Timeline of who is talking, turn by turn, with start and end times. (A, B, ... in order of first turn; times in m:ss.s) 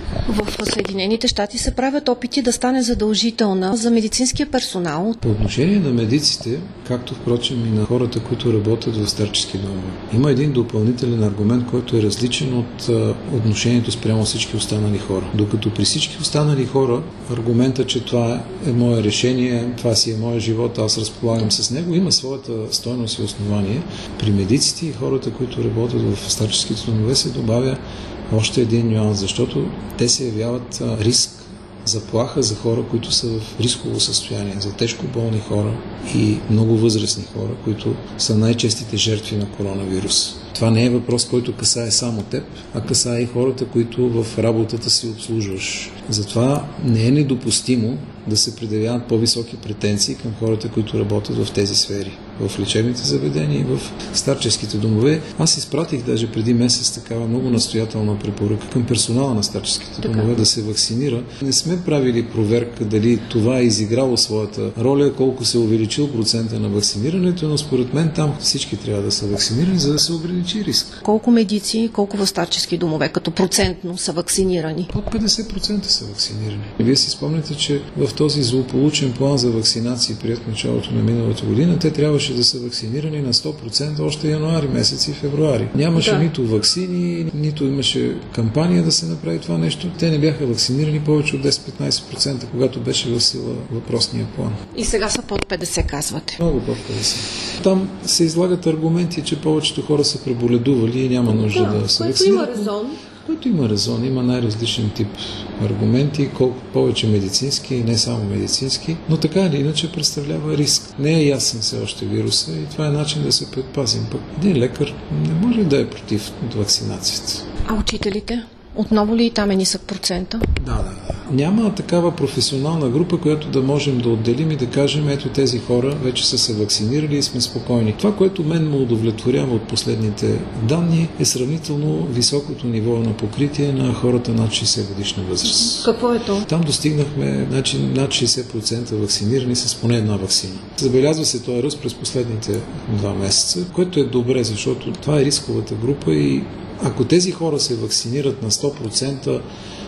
0:00.3-0:05.2 A
0:05.2-1:11.0 B
1:11.0-1:14.9 A
1:14.9-1:34.6 B
1:26.0-1:26.3 A
1:34.7-1:36.4 A
1:36.4-1:57.5 B
1:41.3-1:43.0 A
1:57.7-2:00.5 A
2:00.6-2:15.9 B
2:15.5-2:16.5 A
2:16.5-2:29.4 B